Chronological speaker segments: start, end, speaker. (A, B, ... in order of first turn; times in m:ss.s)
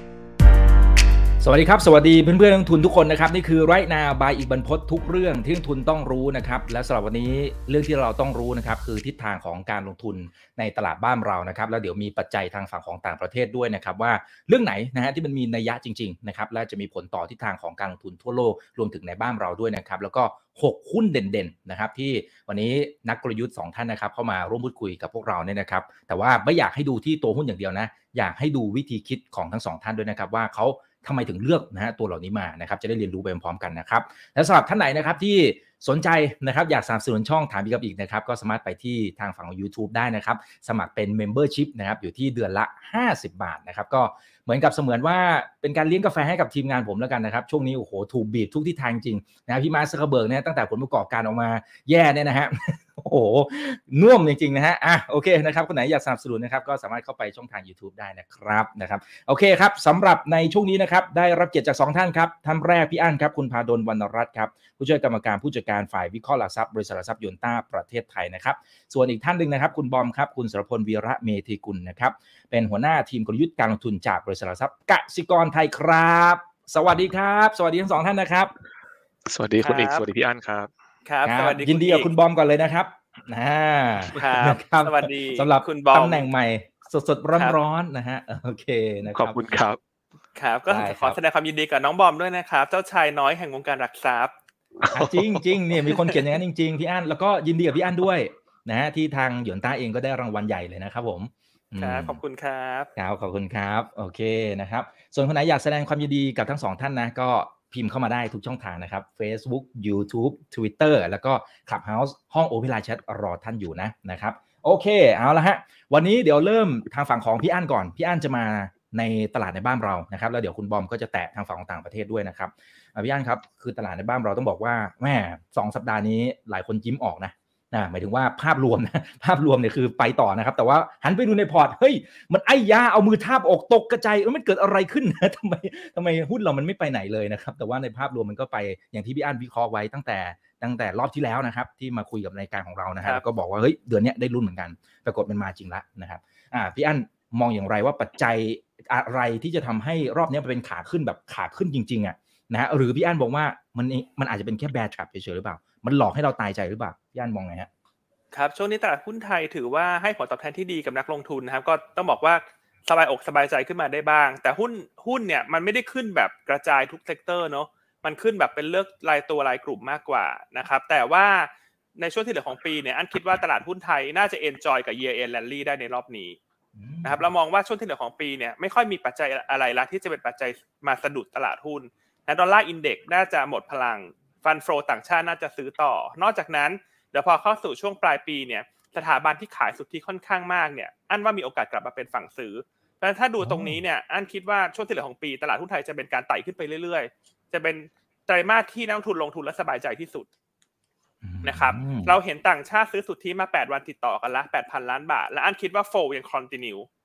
0:01.4-1:18.5 A
1:19.2-1:20.7 B
1:19.6-1:20.0 C
1:21.1-1:22.1 C
1:21.2-1:29.4 A
1:24.1-1:26.2 C
1:29.1-1:29.8 B
1:30.3-1:34.3 C
1:30.7-1:31.2 A
1:34.8-1:35.5 B
1:34.9-1:42.2 A
1:35.8-1:36.2 C
1:41.8-1:42.9 C
1:43.0-2:37.7 A
2:38.3-2:56.4 C
2:56.8-2:57.2 A
2:57.0-3:20.3 C
3:13.4-3:13.8 A
3:21.2-3:22.2 A
3:21.4-3:26.9 C